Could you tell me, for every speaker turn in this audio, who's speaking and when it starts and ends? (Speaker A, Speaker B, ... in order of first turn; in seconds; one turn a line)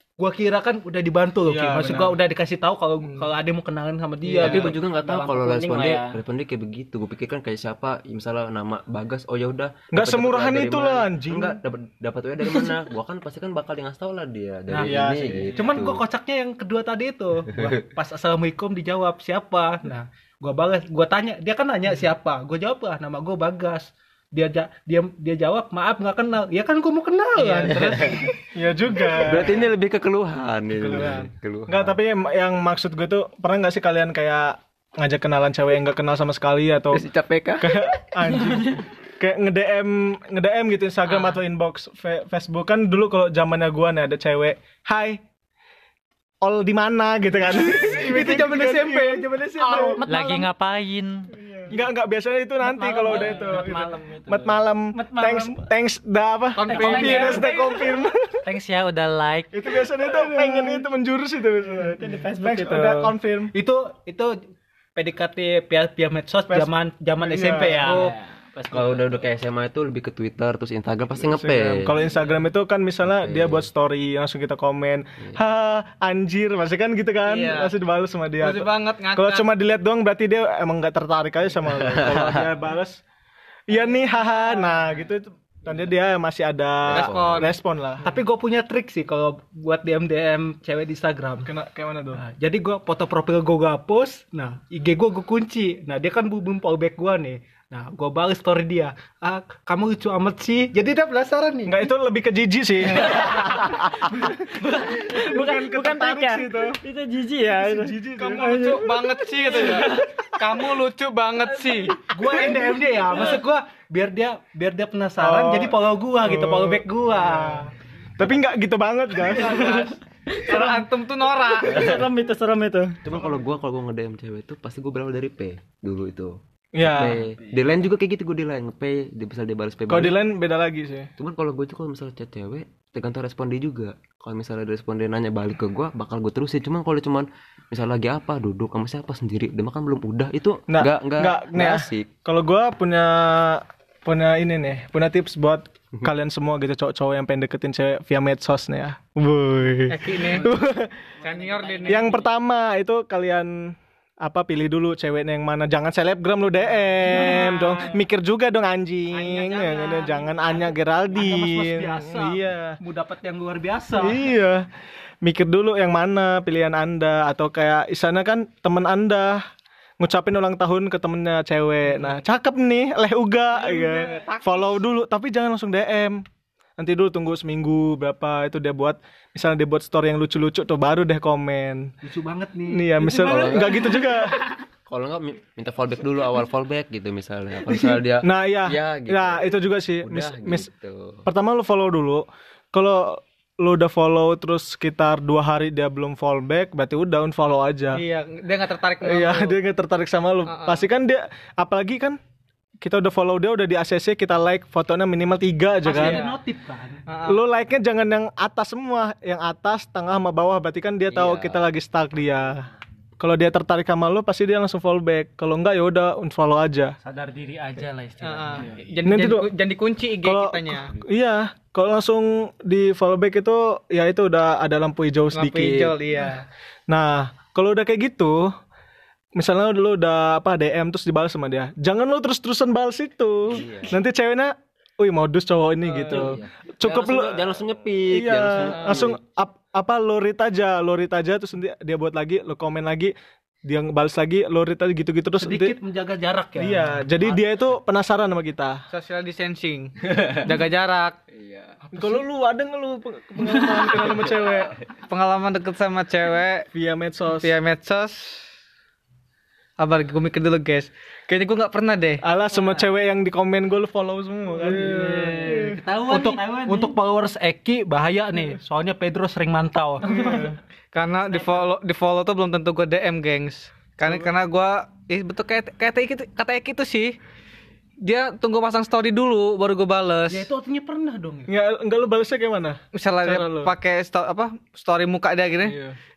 Speaker A: 0.2-4.8
Speaker B: 1.4-2.2
Speaker C: 4.4-16.0
Speaker B: 4.4-4.7
Speaker D: 4.7-6.2
Speaker B: 9.9-11.6
Speaker A: 14.7-28.4
Speaker B: 14.8-15.6
Speaker E: 27.5-28.1
Speaker C: 27.7-28.2
Speaker B: 28.5-29.7
Speaker C: 29.1-31.9
Speaker B: 30.7-37.0
Speaker C: 36.9-37.9
Speaker B: 37.6-45.2
Speaker B: 46.4-50.0
Speaker A: 47.5-50.0
Speaker D: 49.6-50.5
Speaker F: 50.1-51.3
Speaker D: 51.4-51.7
Speaker B: 51.7-58.4
Speaker D: 52.6-55.6
Speaker E: 56.5-57.9
Speaker D: 56.7-57.9
Speaker F: 58.4-59.5
Speaker B: 59.5-63.5
Speaker D: 60.1-60.8
Speaker D: 61.6-63.1
Speaker A: 63.5-64.3
Speaker A: 64.9-68.1
Speaker B: 66.5-68.0
Speaker D: 67.8-69.2
Speaker C: 68.7-71.9
Speaker B: 71.2-83.0
Speaker C: 73.0-73.7
Speaker E: 77.2-77.7
Speaker E: 78.4-79.5
Speaker C: 81.7-82.5
Speaker B: 83.7-88.0
Speaker C: 86.9-87.5
Speaker E: 86.9-87.5
Speaker A: 88.0-91.5
Speaker B: 91.4-92.2
Speaker A: 92.1-101.9
Speaker B: 101.6-104.2
Speaker D: 103.1-110.4
Speaker B: 104.9-106.8
Speaker B: 107.5-108.8
Speaker E: 108.2-112.1
Speaker A: 112.0-117.7
Speaker B: 115.2-117.6
Speaker B: 118.2-119.6
Speaker A: 119.3-120.0
Speaker D: 119.6-120.8
Speaker E: 120.5-121.9
Speaker D: 121.5-123.0
Speaker C: 123.0-130.2
Speaker B: 126.7-127.2
Speaker B: 129.9-131.1
Speaker C: 131.2-142.1
Speaker B: 140.7-151.1
Speaker E: 149.9-150.5
Speaker E: 151.2-152.2
Speaker D: 151.3-151.9
Speaker B: 151.8-162.8
Speaker A: 157.1-158.0
Speaker E: 157.4-157.7
Speaker E: 159.1-160.4
Speaker A: 161.1-164.3
Speaker B: 164.0-164.7
Speaker B: 165.2-169.4
Speaker B: 170.0-176.2
Speaker E: 173.6-174.8
Speaker B: 176.8-181.9
Speaker A: 182.0-184.2
Speaker B: 182.7-184.4
Speaker C: 183.1-183.8
Speaker C: 184.9-191.2
Speaker A: 187.7-188.0
Speaker B: 188.2-190.7
Speaker B: 191.2-198.0
Speaker E: 197.9-199.6
Speaker B: 199.0-202.2
Speaker E: 200.4-200.8
Speaker B: 202.8-206.3
Speaker A: 205.8-207.1
Speaker E: 205.9-206.2
Speaker E: 207.1-207.4
Speaker B: 207.2-212.7
Speaker C: 211.1-211.6
Speaker B: 213.2-216.9
Speaker F: 217.0-218.9
Speaker E: 218.2-220.9
Speaker B: 219.0-219.5
Speaker B: 220.2-226.0
Speaker E: 225.3-226.4
Speaker B: 226.9-228.5
Speaker B: 229.3-243.1
Speaker C: 233.5-234.0
Speaker E: 235.9-236.3
Speaker C: 236.1-239.2
Speaker E: 238.7-239.1
Speaker B: 243.6-245.8
Speaker A: 245.4-247.0
Speaker B: 246.6-248.8
Speaker E: 248.9-251.1
Speaker C: 251.3-251.8
Speaker B: 251.9-254.8
Speaker E: 255.1-256.7
Speaker B: 256.7-257.5
Speaker E: 257.4-258.5
Speaker E: 259.8-262.2
Speaker B: 262.2-265.8
Speaker A: 264.6-270.5
Speaker E: 264.9-265.7
Speaker D: 266.1-266.9
Speaker E: 266.2-266.7
Speaker B: 270.1-270.6
Speaker E: 270.1-277.2
Speaker B: 274.0-274.3
Speaker E: 278.0-280.4
Speaker A: 280.3-281.5
Speaker B: 281.5-283.7
Speaker E: 282.9-285.8
Speaker B: 285.6-285.9